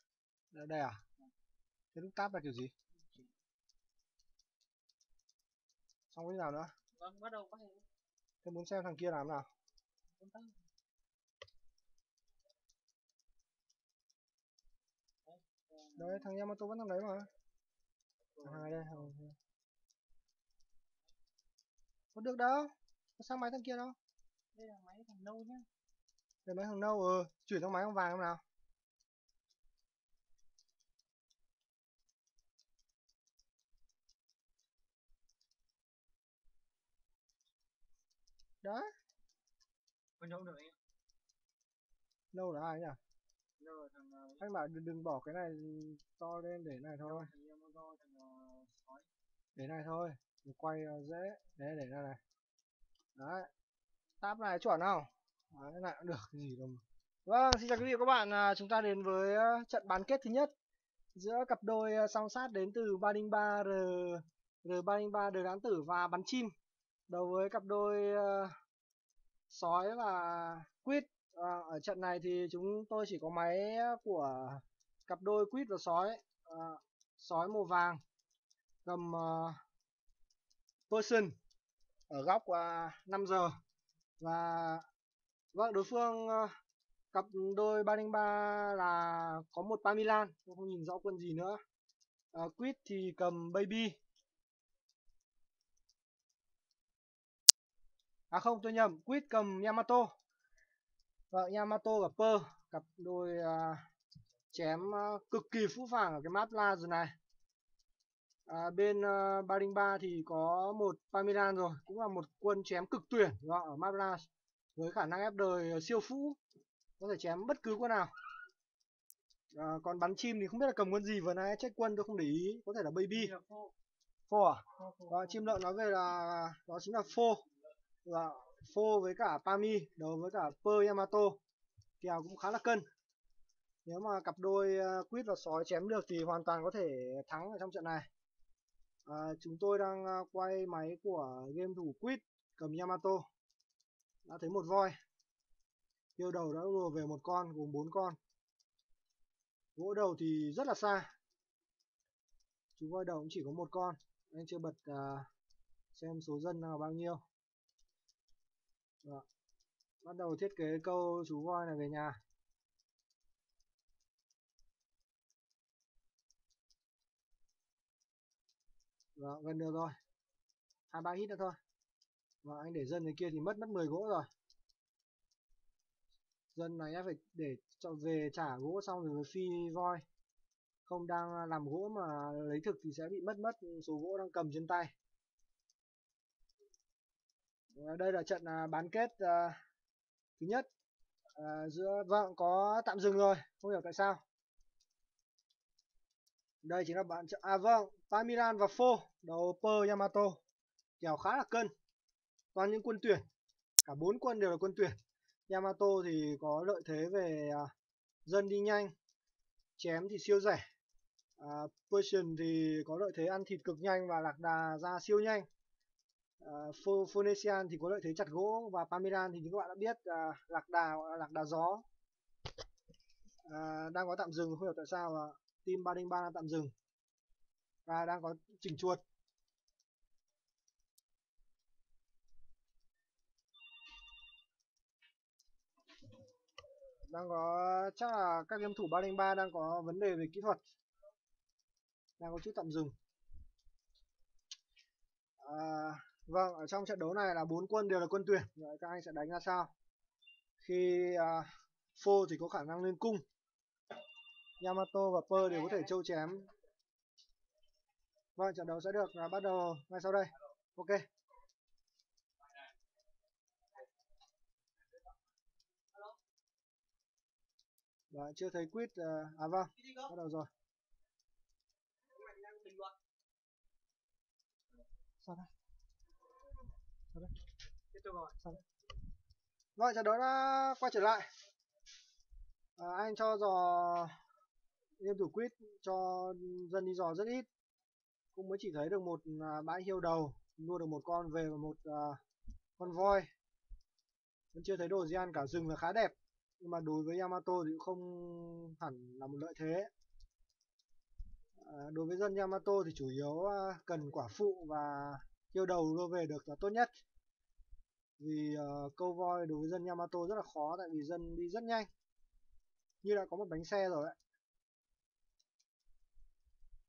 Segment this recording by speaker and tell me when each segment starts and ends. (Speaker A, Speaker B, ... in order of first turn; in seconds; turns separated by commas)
Speaker A: 0.5-1.0, Speaker A: 1.9-2.7, Speaker A: 6.1-6.7, Speaker B: 7.0-7.8, Speaker A: 8.4-9.5, Speaker B: 10.2-10.6, Speaker B: 15.3-16.2, Speaker A: 16.0-17.3, Speaker B: 18.4-19.0, Speaker A: 18.4-19.4, Speaker A: 22.1-24.0, Speaker B: 24.6-25.7, Speaker A: 26.5-28.4, Speaker A: 38.6-38.9, Speaker B: 40.2-40.8, Speaker A: 42.3-43.0, Speaker B: 43.6-44.4, Speaker A: 44.4-47.3, Speaker B: 47.1-49.1, Speaker A: 49.6-52.2, Speaker A: 53.2-53.5, Speaker A: 54.2-60.5, Speaker A: 61.1-66.5, Speaker A: 67.1-68.5, Speaker A: 69.5-78.0, Speaker A: 78.8-79.6, Speaker A: 80.9-81.4, Speaker A: 82.1-83.5, Speaker A: 84.2-84.8, Speaker A: 85.5-86.5, Speaker A: 87.1-91.6, Speaker A: 92.3-94.0, Speaker A: 98.3-100.1, Speaker A: 101.3-103.8, Speaker A: 104.5-107.2, Speaker A: 108.5-116.4, Speaker A: 117.0-118.1, Speaker A: 119.5-123.3, Speaker B: 123.1-123.7, Speaker A: 124.3-127.4, Speaker B: 124.8-125.6, Speaker A: 128.1-131.4, Speaker A: 132.0-132.8, Speaker A: 133.8-138.1, Speaker A: 139.1-143.2, Speaker A: 144.2-144.9, Speaker A: 146.2-148.2, Speaker A: 149.8-151.1, Speaker A: 152.8-155.3, Speaker A: 155.9-157.2, Speaker A: 160.0-162.2, Speaker A: 169.2-169.9, Speaker A: 170.9-171.6, Speaker A: 172.4-174.3, Speaker A: 176.5-180.1, Speaker A: 180.9-184.9, Speaker A: 187.7-189.6, Speaker A: 190.4-190.7, Speaker A: 191.4-194.2, Speaker A: 196.6-200.4, Speaker A: 201.0-201.7, Speaker A: 202.5-203.2, Speaker A: 203.8-207.7, Speaker A: 208.2-208.9, Speaker A: 209.8-210.7, Speaker A: 211.4-215.5, Speaker A: 216.4-221.8, Speaker A: 223.4-226.7, Speaker A: 227.9-229.0, Speaker A: 237.1-240.6, Speaker A: 242.2-242.9, Speaker A: 245.4-249.7, Speaker A: 250.6-253.2, Speaker A: 254.6-256.5, Speaker A: 258.4-261.1, Speaker A: 268.1-270.5, Speaker B: 272.3-272.9, Speaker A: 275.2-275.5, Speaker B: 277.9-278.4, Speaker A: 279.8-281.3, Speaker A: 282.8-284.2, Speaker A: 285.0-287.5, Speaker A: 288.3-292.2, Speaker A: 292.8-293.3, Speaker A: 294.5-299.9, Speaker A: 301.6-307.0, Speaker A: 308.2-311.9, Speaker A: 313.0-314.2